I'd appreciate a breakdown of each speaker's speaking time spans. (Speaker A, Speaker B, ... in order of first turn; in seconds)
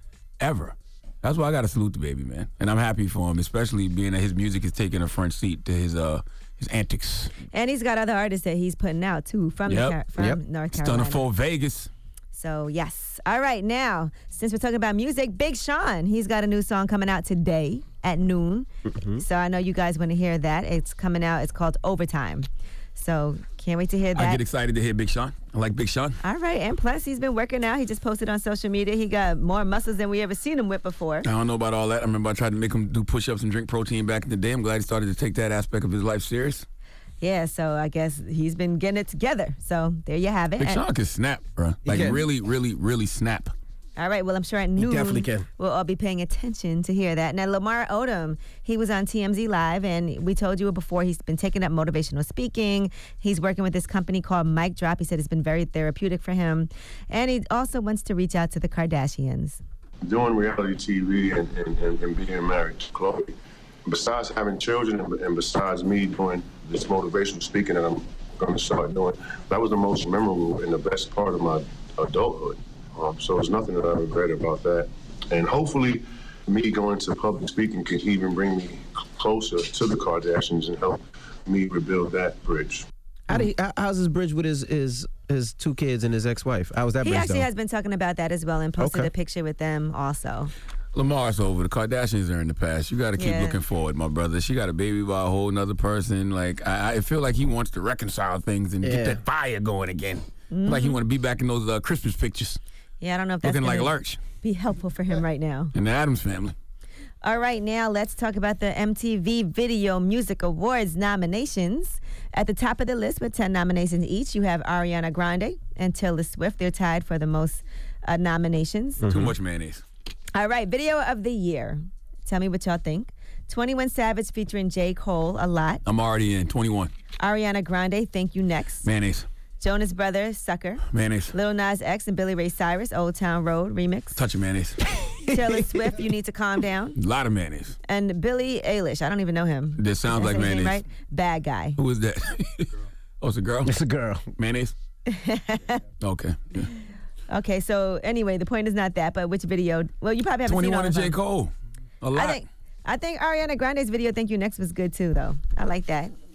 Speaker A: 0.4-7.3, 9.7-10.0, 10.7-11.9, 24.1-26.2, 31.2-36.7, 40.6-43.5, 90.9-102.6, 103.4-104.2, 105.7-106.5, 119.1-119.8, 125.8-126.9, 128.8-129.3, 130.9-131.3, 134.2-134.8, 137.0-137.8, 139.8-140.8, 141.8-142.7, 143.2-143.8, 144.4-144.7, 146.0-146.7, 150.5-151.5, 152.0-152.4
Speaker B: 7.5-11.2, 12.3-24.4, 26.2-31.3, 37.2-40.8, 44.0-59.6, 87.0-90.5, 93.2-93.6, 100.5-101.0, 103.0-103.9, 104.4-105.7, 107.2-119.0, 120.3-125.8, 127.2-128.9, 129.6-134.2, 135.3-137.0, 137.9-141.8, 145.1-145.8, 147.3-151.1, 152.1-156.1
Speaker C: 18.9-19.2, 41.9-42.3, 44.8-45.5, 83.3-87.5, 88.8-89.1, 98.8-99.2, 119.0-119.3, 143.7-144.3
Speaker D: 60.0-82.9